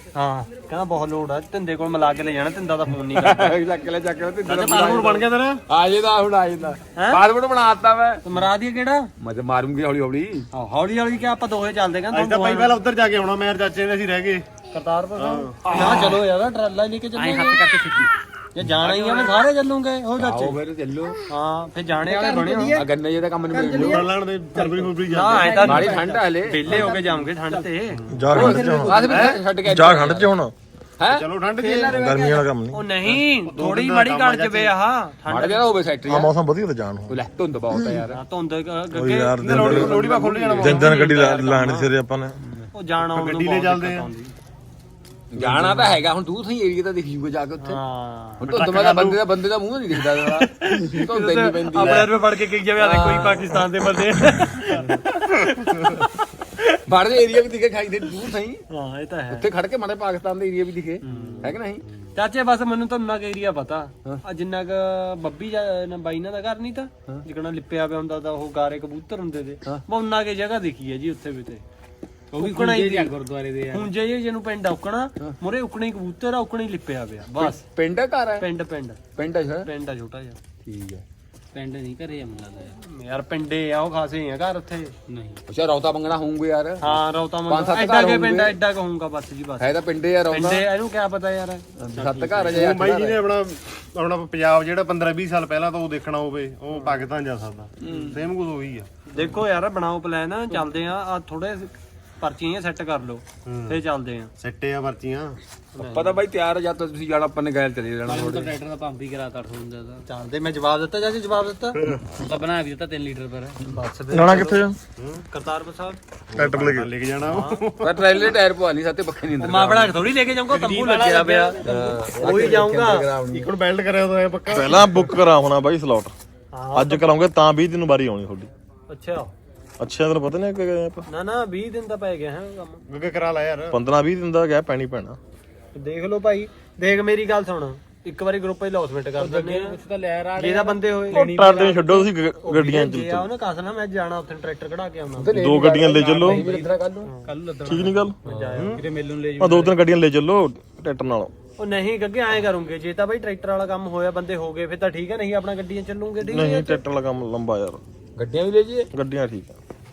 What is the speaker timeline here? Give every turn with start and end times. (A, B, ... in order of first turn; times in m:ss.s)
0:00.1-0:03.6 A
0:03.1-0:08.2 B
0:04.5-0:05.0 A
0:04.7-0:05.6 C
0:07.0-0:07.2 A
0:08.2-0:09.1 A
0:09.2-0:10.5 B
0:10.5-0:12.8 A
0:12.1-0:14.4 C
0:14.7-0:17.6 A
0:15.2-0:15.6 C
0:15.7-0:16.2 B
0:15.7-0:16.0 D
0:17.1-0:18.1 D
0:18.5-0:20.6 A
0:18.9-0:19.3 D
0:20.2-0:21.2 B
0:21.3-0:22.8 A
0:22.0-0:22.8 D
0:22.7-0:24.1 B
0:23.5-0:24.8 D
0:23.7-0:26.9 C
0:24.9-0:28.0 A
0:25.6-0:26.7 B
0:26.7-0:27.6 D
0:27.9-0:29.4 C
0:28.1-0:29.1 E
0:28.3-0:30.3 B
0:28.4-0:29.2 D
0:29.6-0:30.5 E
0:31.0-0:32.4 B
0:31.1-0:32.0 C
0:31.9-0:32.8 E
0:32.7-0:35.7 A
0:33.0-0:34.7 C
0:35.3-0:36.3 B
0:36.1-0:37.2 E
0:37.1-0:38.2 B
0:38.1-0:41.9 A
0:38.9-0:40.0 E
0:39.4-0:41.1 C
0:39.5-0:40.8 B
0:40.6-0:42.4 E
0:42.7-0:44.3 A
0:43.1-0:44.1 C
0:45.3-0:47.8 B
0:45.4-0:45.9 C
0:47.6-0:48.4 A
0:48.4-0:52.1 B
0:48.4-0:49.3 C
0:50.2-0:55.0 A
0:51.7-0:52.1 C
0:52.8-0:53.5 B
0:56.9-0:58.6 B
0:58.7-0:59.4 A
0:59.3-1:01.8 B
1:01.0-1:01.5 A
1:01.1-1:01.5 C
1:02.1-1:11.6 A
1:12.3-1:13.9 D
1:12.4-1:13.1 A
1:13.7-1:17.6 A
1:17.4-1:18.4 B
1:18.4-1:19.0 A
1:19.2-1:19.7 B
1:19.6-1:20.4 A
1:20.6-1:21.0 B
1:21.5-1:22.7 D
1:22.8-1:24.9 A
1:25.1-1:25.4 D
1:25.5-1:28.6 B
1:26.8-1:29.7 A
1:29.6-1:30.6 B
1:30.3-1:32.6 A
1:31.8-1:33.2 B
1:32.4-1:38.9 C
1:36.7-1:37.0 A
1:37.8-1:38.2 B
1:39.1-1:44.3 A
1:43.4-1:43.8 C
1:44.4-1:45.4 C
1:45.8-1:46.2 A
1:45.8-1:48.6 B
1:48.0-1:50.0 D
1:50.0-1:51.8 A
1:52.2-1:53.6 D
1:53.7-1:54.6 A
1:54.1-1:54.8 E
1:55.0-1:55.2 C
1:55.3-1:56.0 A
1:56.3-1:58.0 C
1:56.4-1:56.9 E
1:57.2-1:57.6 A
1:57.8-2:00.0 B
1:59.4-2:03.1 A
2:00.7-2:01.4 D
2:01.3-2:02.6 C
2:01.6-2:03.5 B
2:03.3-2:05.1 C
2:04.5-2:06.1 E
2:06.5-2:07.1 A
2:06.7-2:08.5 E
2:08.9-2:09.3 A
2:09.8-2:11.0 E
2:11.1-2:12.8 A
2:12.9-2:13.8 C
2:13.7-2:15.2 E
2:15.7-2:19.8 A
2:19.2-2:21.9 D
2:20.4-2:21.2 A
2:21.1-2:23.3 E
2:22.4-2:25.4 A
2:25.2-2:27.1 B
2:25.3-2:26.4 E
2:26.0-2:26.7 D
2:27.2-2:27.9 D
2:27.6-2:28.1 E
2:28.2-2:28.8 A
2:28.2-2:28.7 B
2:28.6-2:29.7 D
2:29.4-2:31.3 E
2:31.6-2:36.8 A
2:36.2-2:37.8 E
2:38.2-2:38.9 B
2:38.9-2:39.5 E